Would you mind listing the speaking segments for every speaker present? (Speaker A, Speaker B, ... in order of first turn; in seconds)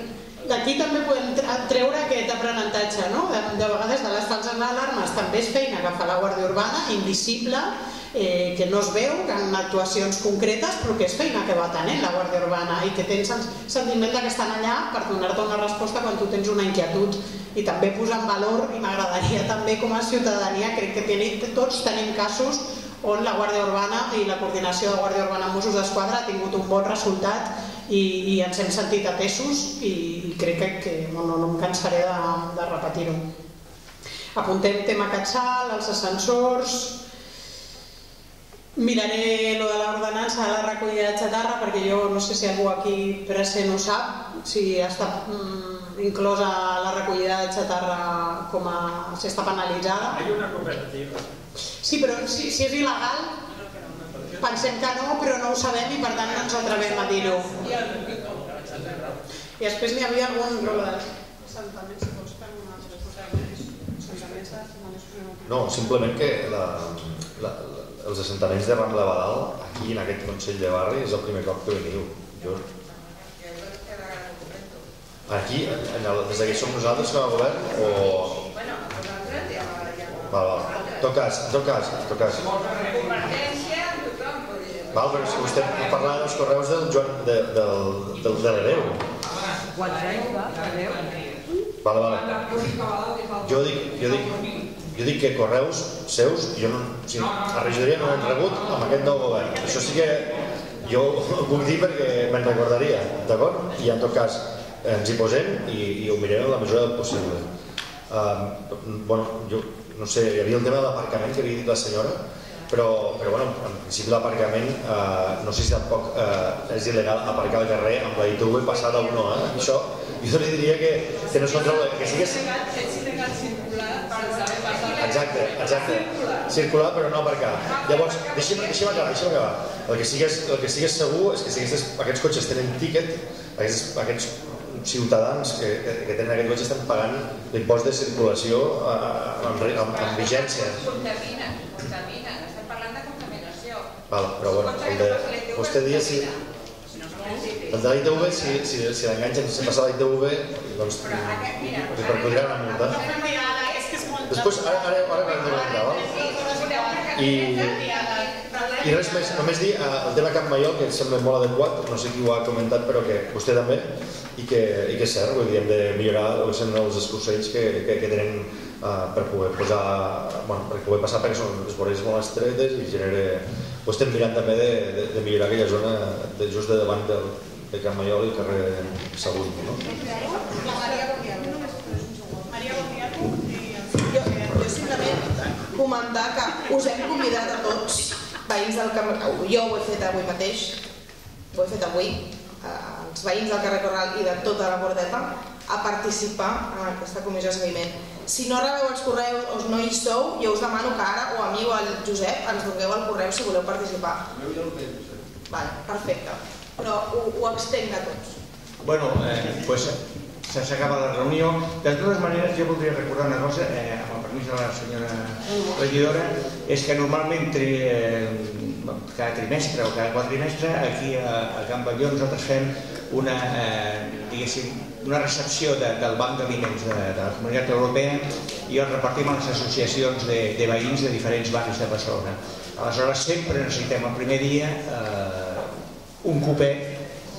Speaker A: 0.4-33.2, 34.3-37.0, 38.7-50.3, 51.8-53.3, 54.4-57.8, 59.6-65.6, 152.9-158.4, 179.9-185.3
Speaker B: 65.5-72.6, 75.3-78.5, 80.3-82.5, 84.9-89.0, 91.8-92.7, 93.4-107.4, 108.1-112.2, 112.7-122.5, 124.9-140.8, 144.1-146.3, 147.7-153.0, 154.3-156.1, 157.1-157.8, 158.8-179.8
Speaker C: 73.4-74.7, 78.4-81.0, 82.5-86.2, 89.5-91.3, 91.9-94.6, 121.6-126.2, 127.6-129.2, 139.8-143.9, 144.6-146.4, 146.9-148.6, 151.0-153.8, 155.7-159.6
Speaker D: 180.7-181.4, 184.0-190.8, 191.5-204.2, 205.5-208.4
Speaker E: 208.8-235.7, 236.2-236.9